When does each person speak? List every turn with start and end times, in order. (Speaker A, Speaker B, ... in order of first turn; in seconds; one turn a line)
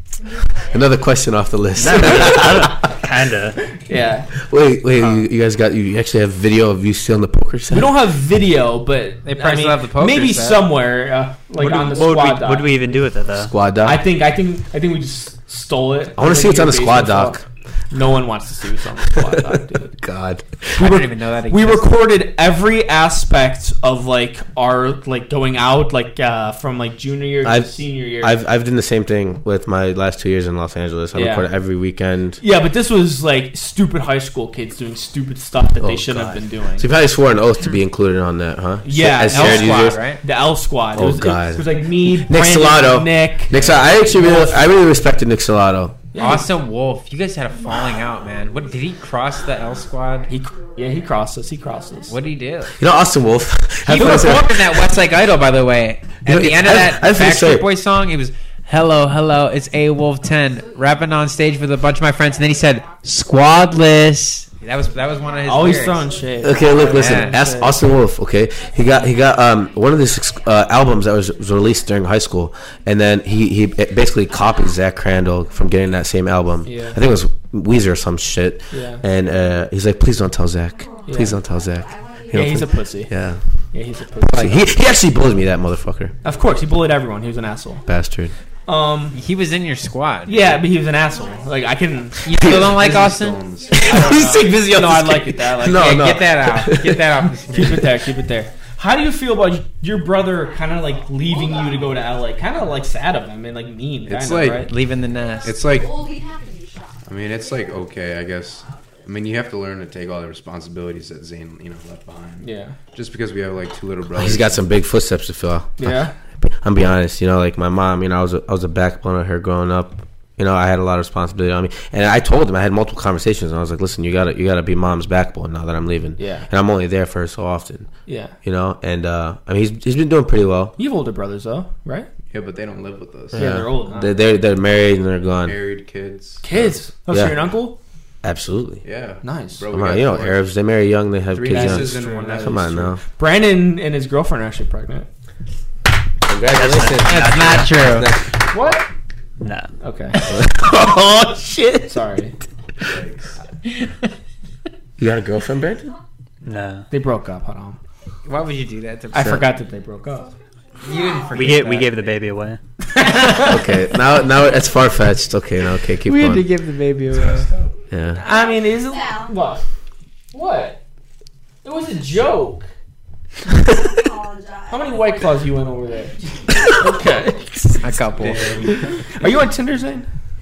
Speaker A: 0.2-1.1
Speaker B: 0.7-2.9
Speaker C: 1.8-3.6
Speaker D: 3.8-4.3
Speaker B: 4.4-8.0
Speaker D: 7.7-12.8
Speaker E: 9.2-10.7
Speaker C: 11.6-13.5
Speaker B: 13.4-14.0
Speaker D: 13.8-20.0
Speaker B: 16.2-17.4
Speaker B: 19.2-20.8
Speaker E: 20.8-21.9
Speaker D: 20.8-28.4
Speaker B: 27.4-32.4
Speaker D: 31.1-31.5
Speaker D: 32.4-36.9
Speaker B: 35.8-40.0
Speaker D: 38.8-44.7
Speaker E: 39.3-40.2
Speaker B: 41.0-46.0
Speaker E: 43.5-43.8
Speaker D: 46.1-46.5
Speaker E: 46.2-50.3
Speaker A: 47.6-48.7
Speaker A: 49.4-52.2
Speaker D: 50.3-52.1
Speaker E: 52.1-52.8
Speaker B: 52.8-54.7
Speaker E: 53.9-66.2
Speaker D: 54.0-54.4
Speaker B: 56.2-57.7
Speaker A: 60.3-63.8
Speaker A: 64.8-67.0
Speaker D: 65.5-67.8
Speaker B: 66.4-83.4
Speaker E: 66.9-67.4
Speaker A: 68.5-71.9
Speaker A: 72.7-75.7
Speaker D: 76.7-77.0
Speaker D: 78.7-79.0
Speaker A: 80.8-82.9
Speaker D: 81.1-81.4
Speaker D: 82.3-83.1
Speaker D: 83.7-84.6
Speaker E: 84.3-84.6
Speaker B: 84.3-86.1
Speaker D: 86.2-87.8
Speaker B: 87.9-88.3
Speaker D: 88.7-89.2
Speaker E: 89.1-90.6
Speaker D: 90.3-92.5
Speaker A: 91.0-92.2
Speaker E: 92.2-93.4
Speaker F: 92.3-94.0
Speaker B: 92.4-92.8
Speaker A: 93.7-94.4
Speaker B: 93.7-97.2
Speaker D: 93.8-96.0
Speaker E: 95.7-97.9
Speaker D: 97.5-104.7
Speaker A: 100.5-102.1
Speaker F: 104.1-104.7
Speaker E: 104.7-105.6
Speaker A: 105.2-107.8
Speaker F: 105.4-106.0
Speaker F: 107.1-114.7
Speaker D: 112.4-112.8
Speaker B: 114.1-127.9
Speaker D: 115.8-116.1
Speaker D: 126.2-126.5
Speaker D: 128.1-128.3
Speaker B: 128.4-130.8
Speaker D: 130.8-132.1
Speaker F: 132.3-133.7
Speaker B: 133.3-135.6
Speaker D: 133.3-134.2
Speaker F: 135.4-136.7
Speaker D: 136.4-137.8
Speaker B: 137.1-137.4
Speaker B: 138.2-138.8
Speaker F: 138.8-140.4
Speaker D: 139.2-139.6
Speaker B: 139.7-143.0
Speaker F: 141.3-143.0
Speaker D: 141.5-145.1
Speaker B: 146.3-148.4
Speaker C: 146.5-148.0
Speaker E: 147.0-148.1
Speaker D: 148.5-148.9
Speaker C: 149.4-149.7
Speaker D: 149.8-152.4
Speaker B: 150.3-150.9
Speaker F: 152.8-153.3
Speaker B: 155.0-155.9
Speaker C: 156.4-156.9
Speaker D: 156.9-157.8
Speaker E: 158.3-159.5
Speaker D: 159.1-160.3
Speaker E: 160.8-162.0
Speaker A: 160.9-161.3
Speaker C: 161.3-162.6
Speaker D: 163.0-163.6
Speaker E: 163.0-163.5
Speaker B: 163.4-166.5
Speaker E: 166.1-167.5
Speaker F: 167.2-167.7
Speaker B: 167.9-168.2
Speaker D: 168.2-169.6
Speaker A: 168.2-169.6
Speaker D: 170.3-170.8
Speaker D: 171.6-172.7
Speaker A: 173.9-177.1
Speaker D: 174.7-177.8
Speaker E: 177.8-178.7
Speaker F: 178.2-179.1
Speaker D: 178.8-180.1